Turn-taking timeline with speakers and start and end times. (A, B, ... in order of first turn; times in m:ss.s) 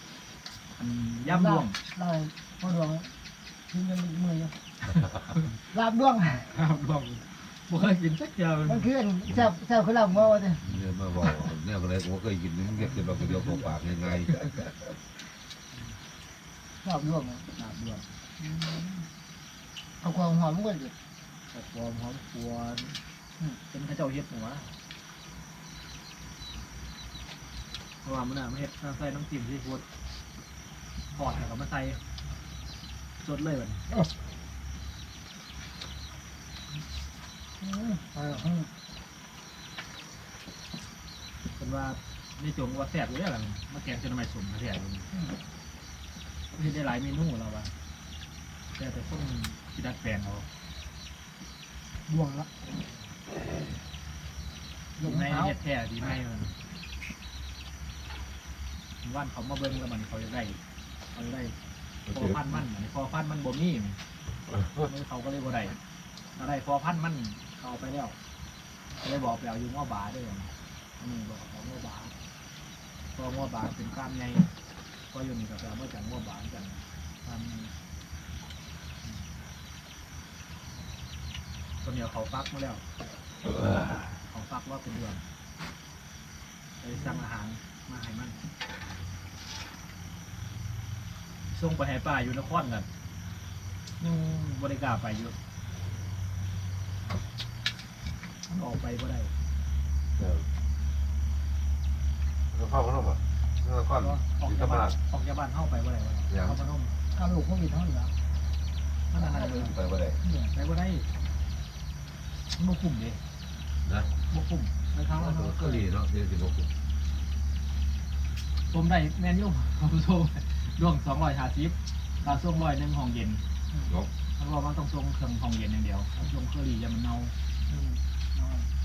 0:00.8-0:01.8 A
0:01.2-0:03.1 B
0:03.7-0:04.5 B
0:05.7-0:06.5 B
0:06.5-0:08.9 A
0:08.7-0:10.6 B
0:10.6-0:14.6 C
0:12.9-0:13.6 A
0:16.8-0:17.4 B
0:17.6-0:18.0 A
0:18.4-0:19.0 B
0:20.0-0:20.9 B
0:21.5-0:23.0 A
0:23.7-0:24.7 A
0:28.0-0:29.8 A
0:31.1-0:32.0 A
0:33.2-0:33.9 A
0:37.6-0:38.7 B
0:41.5-0:45.1 A
0:45.1-0:45.4 B
0:46.5-0:47.7 A
0:48.7-0:50.5 A
0:52.1-0:52.5 B
0:55.0-0:55.5 B
0:55.0-0:56.6 A
0:59.0-1:00.6 A
1:01.1-1:01.5 A
1:02.1-1:04.0 A
1:04.8-1:05.8 A
1:06.4-1:08.1 A
1:09.0-1:12.1 A
1:13.1-1:14.5 A
1:15.1-1:17.7 A
1:21.8-1:22.8 A
1:24.2-1:25.2 A
1:26.8-1:28.4 A
1:31.5-1:32.8 A
1:34.0-1:35.3 A
1:38.5-1:39.3 A
1:42.5-1:44.9 C
1:44.0-1:46.9 A
1:46.3-1:46.5 C
1:47.2-1:48.1 B
1:49.1-1:49.7 A
1:49.2-1:50.2 C
1:50.2-1:50.5 B
1:50.5-1:51.0 A
1:52.6-1:53.2 A
1:54.3-1:55.8 A
1:55.1-1:56.7 C
1:58.7-2:03.4 A
2:04.4-2:07.3 A
2:07.7-2:08.6 B